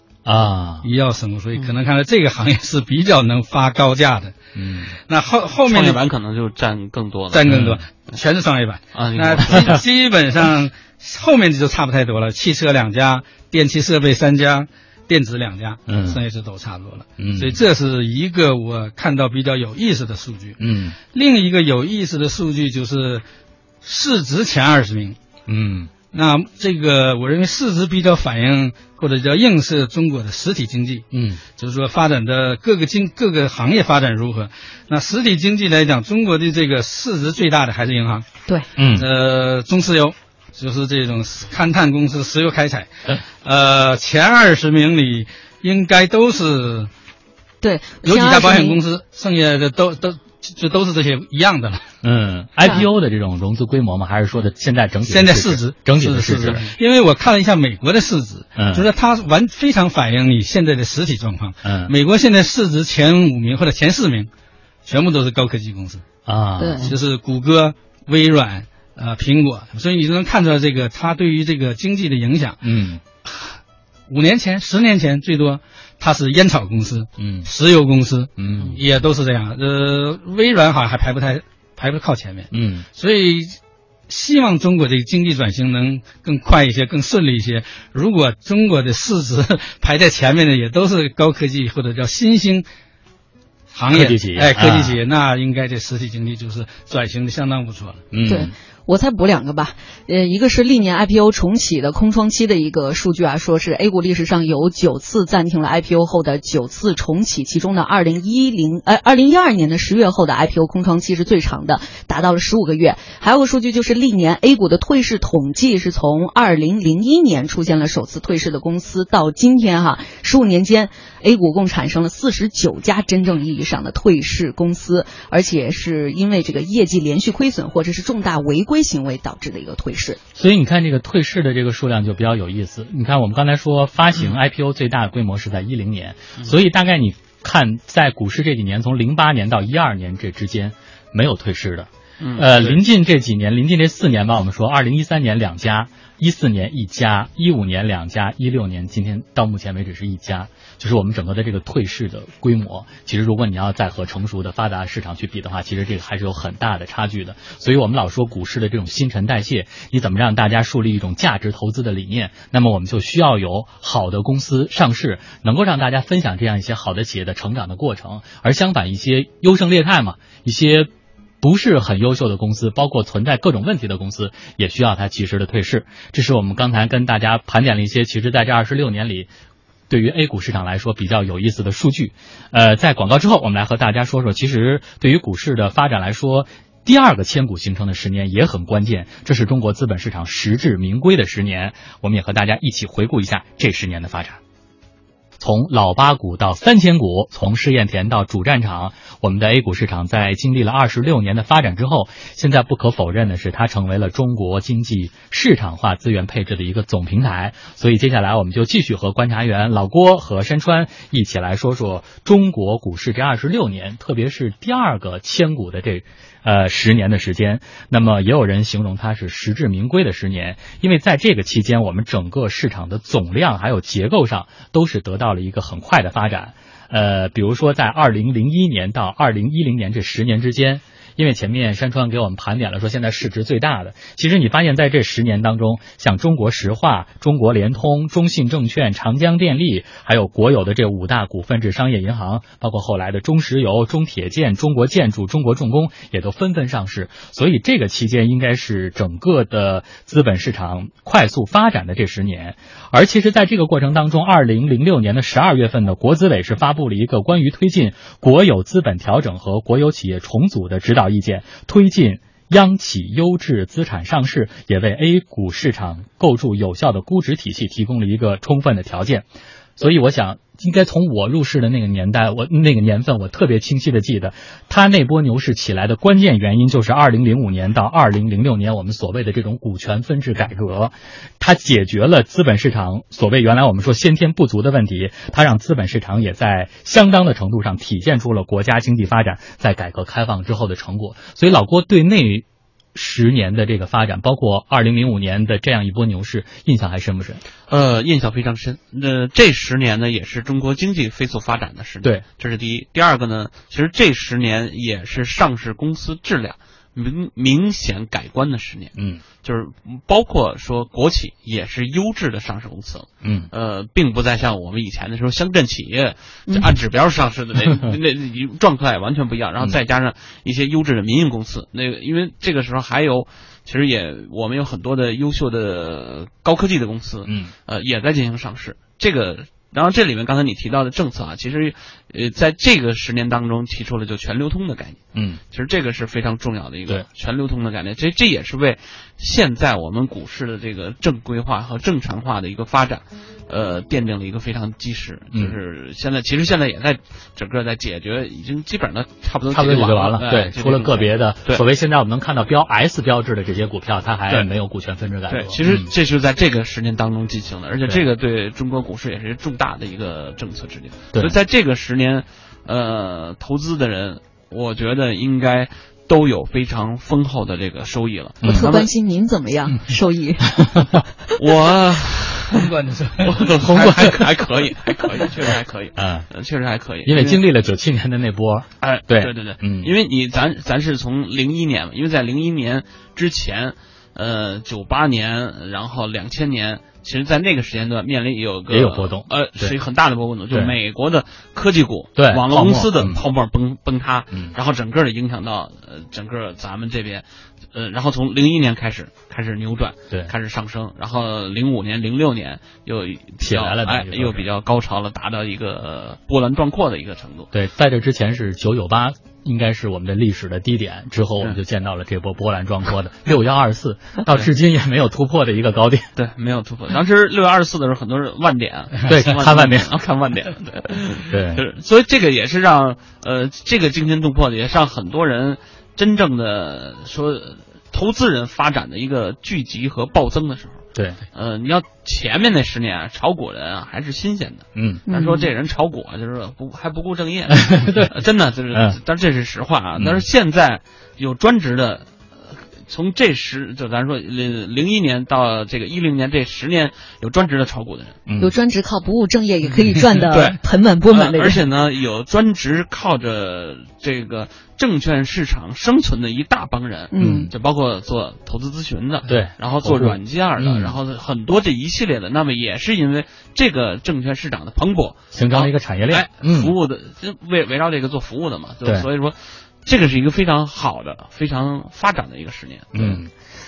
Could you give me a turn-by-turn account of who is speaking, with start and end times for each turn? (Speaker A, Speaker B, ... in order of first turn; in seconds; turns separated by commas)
Speaker A: 0.3-0.9, Speaker B: 0.8-4.3, Speaker A: 4.5-4.9, Speaker B: 5.0-6.0, Speaker C: 5.7-7.5, Speaker B: 7.3-23.2, Speaker A: 7.5-7.8, Speaker C: 8.9-9.8, Speaker A: 15.9-16.2, Speaker A: 17.2-17.6, Speaker A: 20.6-21.0, Speaker B: 23.8-25.2, Speaker A: 25.5-25.9, Speaker B: 26.1-31.1, Speaker A: 31.1-31.4, Speaker B: 31.6-38.3, Speaker A: 38.8-39.1, Speaker B: 38.9-46.9, Speaker D: 47.6-48.8, Speaker B: 48.0-51.9, Speaker A: 52.0-56.7, Speaker B: 55.1-64.3, Speaker A: 58.6-58.9, Speaker A: 61.6-61.9, Speaker B: 64.8-66.0, Speaker A: 66.3-66.9, Speaker D: 66.6-66.9, Speaker B: 66.8-72.6, Speaker A: 72.6-73.0, Speaker B: 74.1-92.7, Speaker A: 77.2-77.5, Speaker A: 78.4-78.8, Speaker A: 82.5-82.9, Speaker B: 93.7-98.0, Speaker A: 93.9-95.0, Speaker A: 98.1-98.5, Speaker D: 98.3-130.2, Speaker A: 130.3-170.9, Speaker C: 142.2-142.8, Speaker A: 171.4-179.3, Speaker A: 179.9-194.4, Speaker A: 195.4-297.4, Speaker C: 297.7-351.6, Speaker A: 309.0-309.2, Speaker A: 313.2-313.5, Speaker A: 327.3-327.5, Speaker A: 335.1-335.4, Speaker A: 349.5-355.9, Speaker C: 355.3-368.9, Speaker A: 368.4-368.8, Speaker D: 368.4-371.0, Speaker A: 370.5-371.0, Speaker C: 371.4-372.7, Speaker B: 372.5-373.5, Speaker C: 373.2-377.4, Speaker A: 373.7-374.1, Speaker A: 376.0-376.3, Speaker A: 377.1-379.9, Speaker C: 378.8-407.5, Speaker A: 388.7-389.8, Speaker A: 392.2-393.2, Speaker A: 403.4-404.4, Speaker A: 407.5-416.1, Speaker C: 416.2-448.2, Speaker A: 419.1-419.9, Speaker A: 421.3-421.6, Speaker A: 430.9-431.2, Speaker A: 434.8-435.0, Speaker D: 435.1-435.5, Speaker A: 437.5-438.1, Speaker A: 440.0-440.2, Speaker A: 448.3-448.5, Speaker D: 448.4-451.6, Speaker C: 450.3-473.2, Speaker D: 457.1-457.5, Speaker A: 457.2-457.5, Speaker A: 459.3-461.0, Speaker A: 465.3-466.7, Speaker A: 472.9-473.3